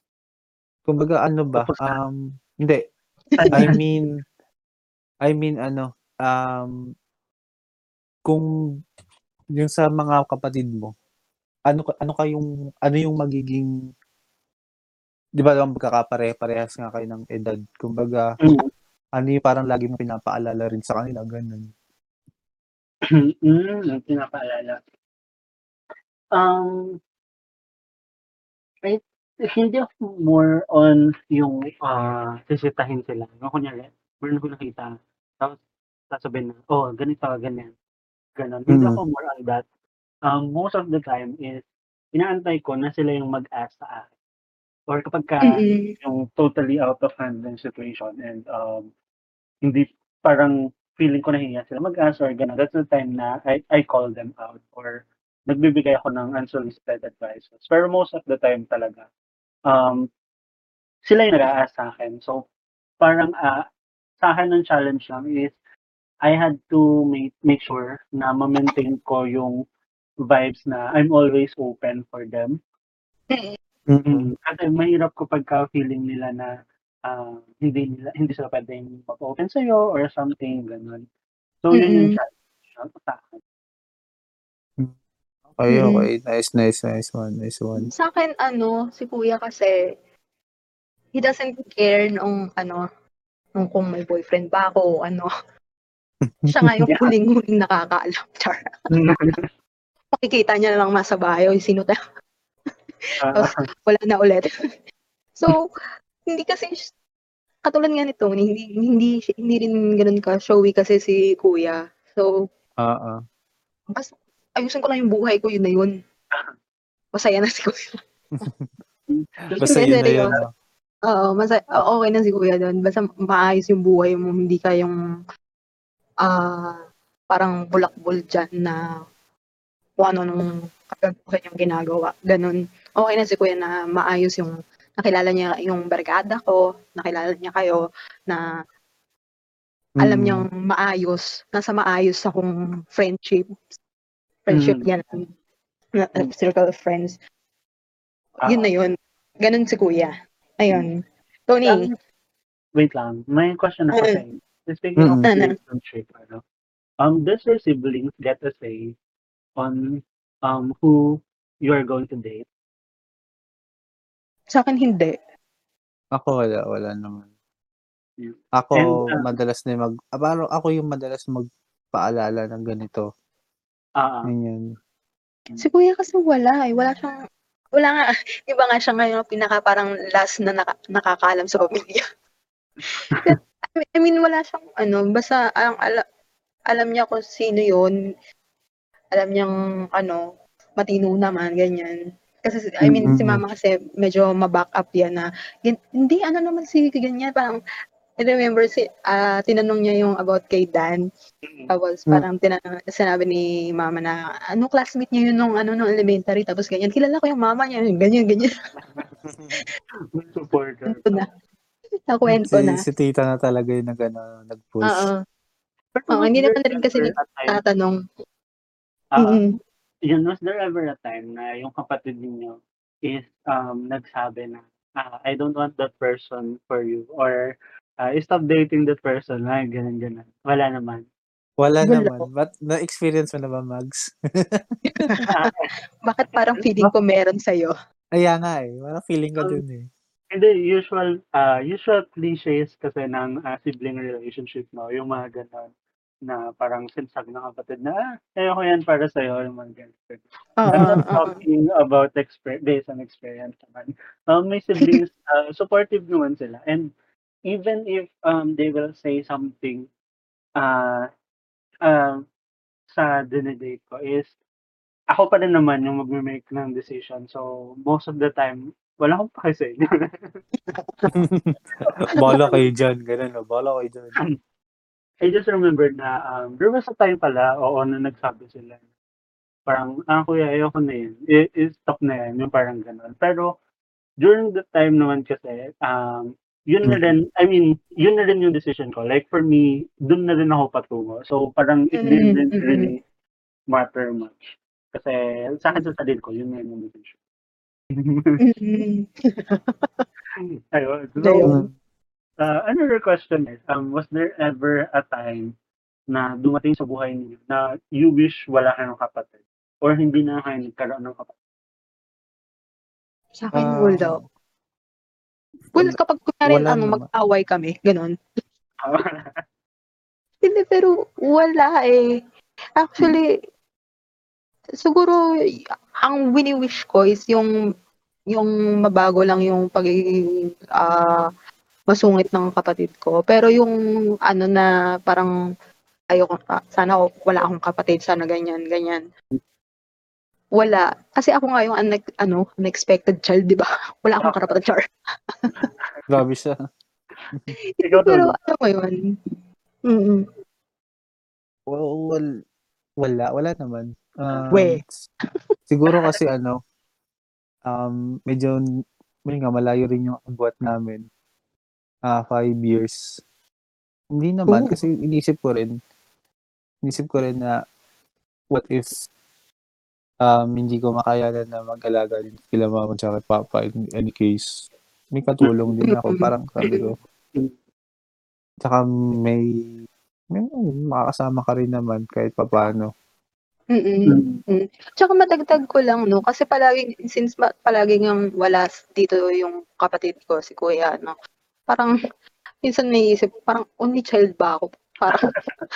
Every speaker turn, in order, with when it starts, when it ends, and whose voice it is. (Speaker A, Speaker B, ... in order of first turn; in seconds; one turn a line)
Speaker A: 0.8-2.8
Speaker B: 3.4-3.7
Speaker A: 3.5-4.1
Speaker A: 5.2-6.7
Speaker A: 9.6-10.9
Speaker A: 11.7-13.7
Speaker A: 15.4-18.3
Speaker B: 18.4-18.7
Speaker A: 19.2-21.7
Speaker B: 23.1-24.8
Speaker B: 26.4-26.8
Speaker B: 28.8-35.6
Speaker B: 36.1-37.7
Speaker B: 38.4-39.6
Speaker A: 38.7-39.0
Speaker B: 40.3-44.1
Speaker B: 44.9-48.9
Speaker C: 45.5-45.9
Speaker B: 49.6-59.1
Speaker B: 59.7-60.1
Speaker B: 61.0-62.5
Speaker B: 63.0-63.6
Speaker B: 64.2-65.6
Speaker B: 66.2-69.6
Speaker B: 70.2-72.6
Speaker A: 73.9-74.2
Speaker B: 74.0-76.5
Speaker B: 77.1-81.0
Speaker B: 81.6-83.4
Speaker C: 81.7-82.2
Speaker A: 85.5-87.9
Speaker C: 85.7-86.1
Speaker C: 87.8-89.7
Speaker C: 91.2-92.8
Speaker C: 93.6-95.3
Speaker C: 96.5-98.6
Speaker B: 98.9-99.4
Speaker C: 100.2-102.0
Speaker B: 103.2-103.5
Speaker C: 103.3-104.5
Speaker C: 105.4-105.7
Speaker C: 106.3-106.7
Speaker C: 107.6-112.3
Speaker A: 112.8-113.2
Speaker C: 113.9-115.9
Speaker C: 117.1-118.0
Speaker A: 118.4-118.7
Speaker B: 119.1-120.4
Speaker C: 119.6-120.3
Speaker A: 119.6-120.5
Speaker C: 121.1-124.9
Speaker C: 126.2-126.8
Speaker C: 127.3-128.8
Speaker C: 130.0-138.4
Speaker A: 140.0-140.4
Speaker C: 140.0-143.7
Speaker C: 144.4-145.2
Speaker B: 144.5-144.8
Speaker C: 146.0-147.2
Speaker C: 148.4-151.9
Speaker B: 151.6-152.0
Speaker B: 152.8-156.4
Speaker A: 155.0-155.2
Speaker C: 155.3-155.5
Speaker B: 157.0-158.9
Speaker B: 159.6-162.4
Speaker C: 164.5-165.2
Speaker A: 166.2-167.3
Speaker B: 168.2-169.2
Speaker A: 168.6-173.1
Speaker B: 174.0-174.3
Speaker A: 174.2-174.6
Speaker C: 175.6-177.2
Speaker C: 177.8-182.0
Speaker C: 183.1-186.0
Speaker C: 186.7-187.9
Speaker C: 189.1-190.2
Speaker C: 190.8-197.6
Speaker A: 193.0-193.4
Speaker C: 198.2-201.0
Speaker C: 201.7-208.5
Speaker B: 208.8-209.1
Speaker A: 209.3-209.5
Speaker B: 210.2-211.2
Speaker C: 210.9-211.2
Speaker C: 212.1-212.8
Speaker A: 212.5-215.1
Speaker C: 214.9-215.2
Speaker C: 215.9-218.0
Speaker B: 216.1-217.6
Speaker B: 219.1-219.4
Speaker C: 219.2-219.5
Speaker B: 220.1-231.1
Speaker A: 231.6-234.7
Speaker C: 231.8-232.2
Speaker C: 234.9-235.5
Speaker B: 235.2-235.7
Speaker C: 236.1-237.7
Speaker A: 238.2-239.8
Speaker B: 240.3-245.7
Speaker B: 246.2-256.9
Speaker C: 250.6-251.4
Speaker B: 257.5-259.9
Speaker B: 260.6-261.1
Speaker B: 261.8-262.2
Speaker B: 262.9-264.4
Speaker B: 265.1-270.4
Speaker C: 270.7-271.1
Speaker A: 271.1-274.2
Speaker B: 275.2-278.8
Speaker B: 279.6-283.6
Speaker B: 284.2-293.0
Speaker C: 291.9-292.9
Speaker B: 293.7-294.4
Speaker B: 294.9-297.2
Speaker B: 297.9-298.4
Speaker C: 298.4-300.0
Speaker B: 300.7-301.6
Speaker C: 301.2-301.5
Speaker B: 302.4-305.5
Speaker B: 306.1-311.4
Speaker C: 313.4-314.2
Speaker A: 313.5-314.2
Speaker C: 315.8-318.1
Speaker A: 315.8-317.1
Speaker B: 318.8-319.4
Speaker C: 320.4-322.0
Speaker C: 322.8-323.2
Speaker C: 324.8-325.1
Speaker C: 326.0-327.5
Speaker C: 328.3-330.0
Speaker C: 330.8-331.2
Speaker C: 331.9-333.7
Speaker C: 334.3-335.3
Speaker C: 336.1-339.0
Speaker C: 340.6-344.8
Speaker B: 344.2-344.5
Speaker A: 346.1-346.6
Speaker C: 347.8-348.9
Speaker B: 347.8-348.4
Speaker C: 349.9-350.2
Speaker A: 351.7-352.2
Speaker A: 353.0-354.8
Speaker C: 354.5-354.8
Speaker A: 355.7-356.6
Speaker A: 357.7-358.6
Speaker A: 359.2-361.0
Speaker A: 362.1-363.2
Speaker A: 364.1-365.7
Speaker C: 364.5-364.8
Speaker A: 366.9-367.5
Speaker A: 368.5-368.9
Speaker A: 370.2-374.5
Speaker A: 375.1-376.9
Speaker C: 375.9-376.8
Speaker A: 378.6-379.5
Speaker A: 380.3-382.9
Speaker C: 383.7-391.1
Speaker B: 384.1-384.4
Speaker C: 392.6-395.3
Speaker B: 395.1-395.5